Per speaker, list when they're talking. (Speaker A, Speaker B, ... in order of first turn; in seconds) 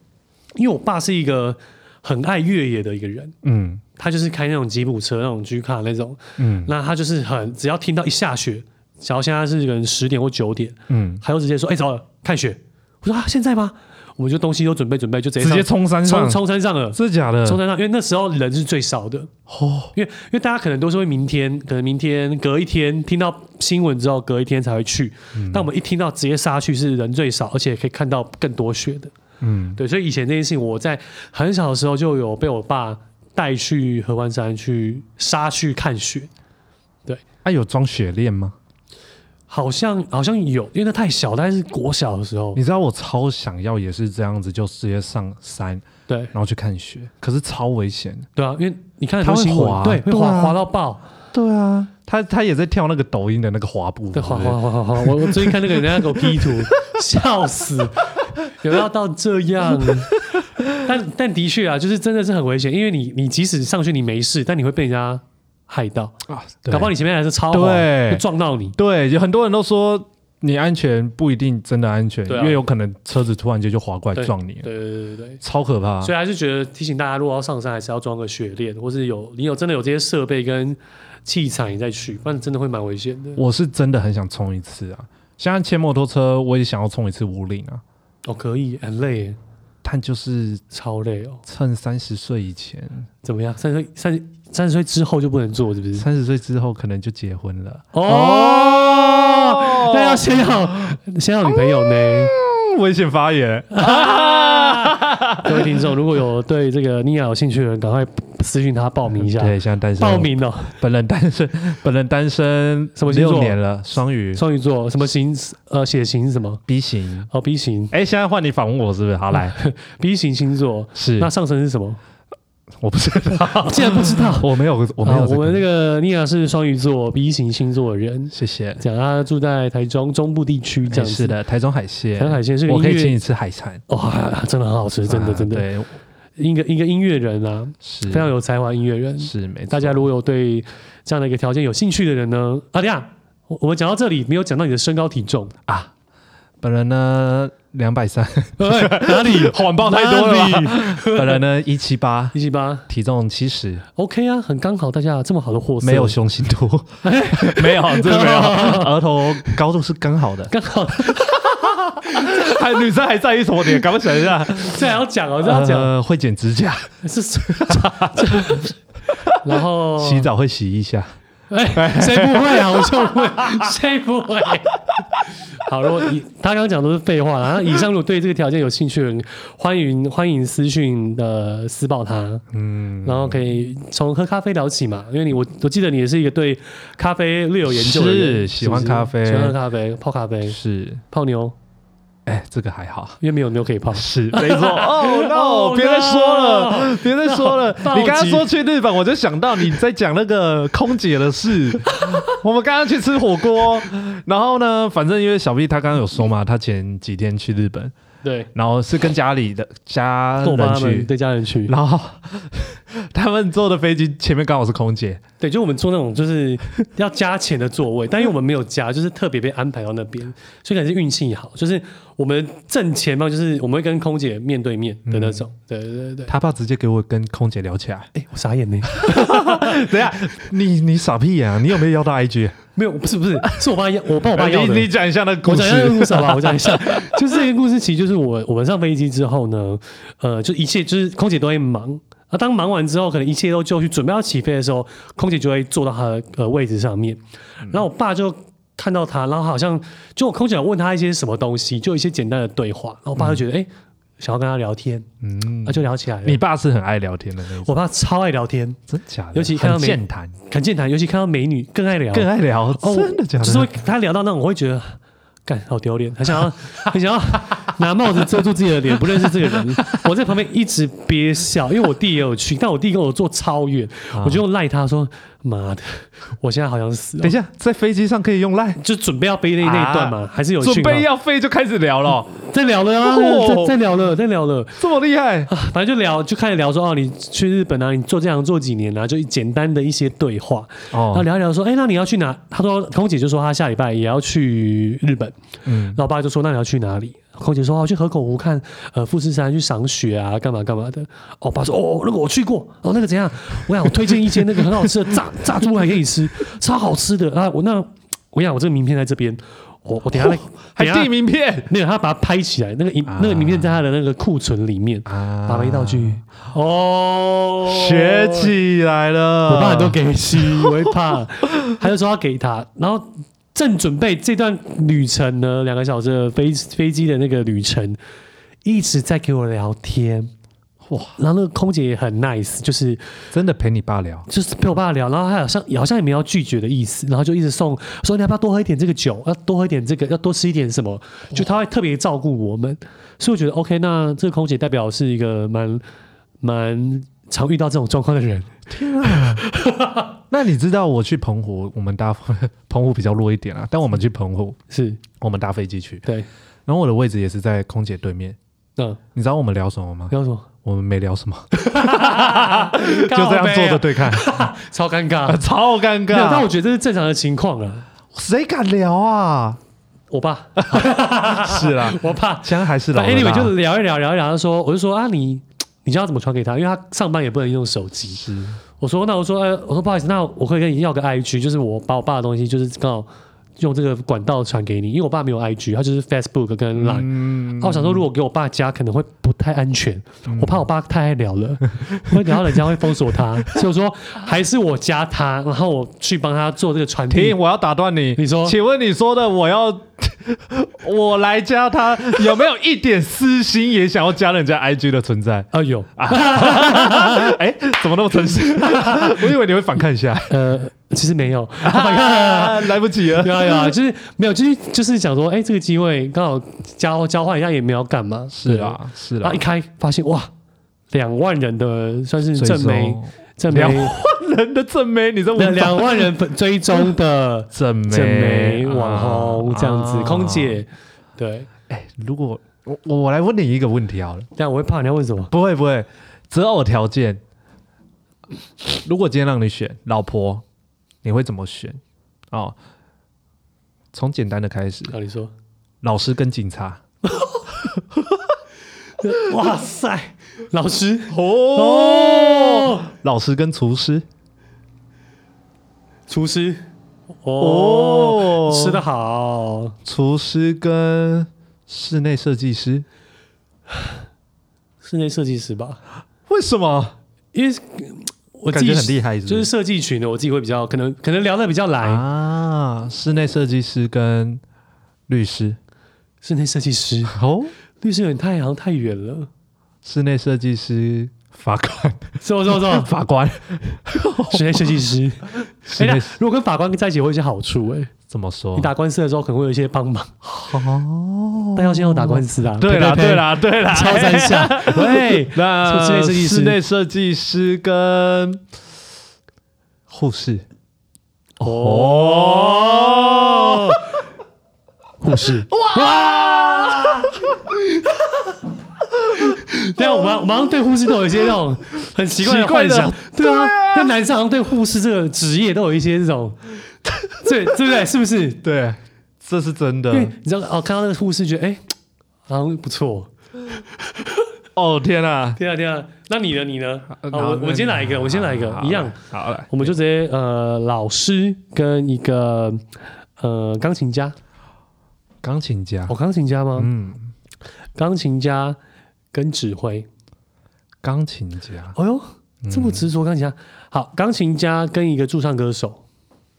Speaker A: 0.6-3.3, 4.0-19.3, 19.9-29.1, 29.8-36.3, 39.5-42.6, 46.1-46.3, 48.4-51.0, 54.1-60.2, 60.8-66.1, 66.7-68.8, 72.3-72.6, 74.1-75.4, 76.0-83.4, 88.2-89.4, 90.7-91.4, 93.2-96.0, 97.9-102.3, 103.7-110.8, 113.0-113.6, 114.3-116.6, 117.3-117.9, 119.3-122.0, 123.6-131.3, 132.2-133.2, 133.9-135.7, 136.4-145.5, 148.6-151.4, 152.3-152.8, 153.9-156.2, 157.0-159.6, 160.5-162.8, 164.6-165.9, 167.0-168.8, 169.3-170.3, 171.5-174.8, 175.6-182.4, 183.0-190.6, 191.1-191.6, 193.2-198.5, 201.9-202.3, 208.2-208.5, 210.4-211.7, 215.4-226.3, 228.1-229.9, 232.8-234.9, 235.4-253.7, 254.2-255.1, 255.6-256.4, 257.6-258.8, 259.3-277.4, 278.8-281.1, 282.4-284.8, 285.5-311.1, 311.6-318.5, 319.5-328.0, 328.6-330.3, 331.2-333.0, 334.3-345.8, 346.4-350.1, 354.7-355.0, 360.1-360.5, 361.5-365.4, 366.1-367.9, 370.1-378.2, 378.8-383.1, 383.6-397.4, 398.2-398.6, 405.5-407.4, 408.6-409.2, 410.3-420.3, 420.9-423.9, 425.4-431.5, 434.4-435.3, 444.9-445.3, 447.1-447.4, 449.0-452.9, 456.1-456.6, 457.2-459.8, 464.8-465.8, 467.3-472.0, 476.2-477.1, 477.8-479.3, 482.2-482.9, 484.3-487.9, 488.6-490.5, 491.6-496.6, 501.4-503.8, 505.0-508.2, 509.1-516.6, 517.2-518.4, 519.9-521.6, 522.3-523.1, 523.8-524.2, 525.4-529.0, 529.5-532.6, 533.2-534.1, 535.9-536.7, 537.8-538.6, 539.1-539.9, 541.8-545.8
Speaker B: 3.4-3.8, 6.4-6.7, 10.9-11.2, 15.4-16.4, 16.9-17.6, 19.5-19.9, 25.3-25.7, 29.4-29.8, 37.4-38.5, 42.5-48.3, 49.2-50.5, 51.3-56.7, 59.7-60.8, 66.3-66.9, 67.5-68.2, 68.8-74.7, 75.4-76.1, 83.4-87.8, 89.8-90.6, 91.5-93.1, 96.0-101.0, 101.5-105.8, 109.2-114.4, 116.7-117.3, 117.9-119.6, 120.9-121.3, 122.8-125.6, 128.3-128.8, 130.9-133.8, 135.1-135.9, 137.8-138.3, 139.2-140.1, 145.7-145.9, 146.6-152.3, 152.9-153.8, 155.8-164.9, 165.4-166.9, 167.5-168.7, 170.0-171.1, 171.7-173.7, 182.5-183.4, 187.7-189.6, 190.5-191.0, 192.2-193.2, 193.9-207.9, 208.5-211.1, 211.7-215.2, 225.1-225.4, 226.3-228.1, 228.8-232.6, 234.2-237.4, 253.2-253.4, 255.2-257.7, 258.9-260.3, 262.1-263.7, 269.0-270.0, 274.1-274.4, 277.2-278.8, 279.6-282.4, 283.0-283.8, 284.8-285.5, 290.9-291.2, 295.6-296.0, 303.9-304.9, 310.1-311.7, 313.1-313.8, 315.1-316.2, 317.6-320.9, 330.8-331.2, 333.3-334.3, 348.7-349.4, 350.3-354.6, 355.2-356.0, 356.7-358.4, 359.1-360.1, 360.6-364.5, 365.2-366.5, 368.1-369.6, 370.6-373.5, 378.1-378.6, 386.8-388.1, 390.3-390.6, 391.9-392.6, 397.1-410.4, 411.6-413.7, 418.3-419.4, 422.3-426.1, 427.5-430.6, 431.7-434.3, 435.3-437.2, 438.7-440.4, 441.0-441.8, 442.3-442.6, 443.9-444.9, 445.8-446.8, 447.7-448.2, 451.1-454.0, 457.4-458.8, 459.8-462.8, 466.3-466.9, 468.5-469.5, 471.8-474.4, 475.1-475.6, 477.1-477.5, 479.8-484.8, 485.4-486.2, 488.1-488.7, 490.4-498.4, 499.9-500.4, 501.4-503.8, 505.5-507.3, 509.1-510.4, 512.2-513.9, 517.0-517.3, 518.4-520.1, 524.5-525.4, 526.9-529.7, 535.2-535.9, 536.5-537.1, 540.8-541.7, 542.4-542.9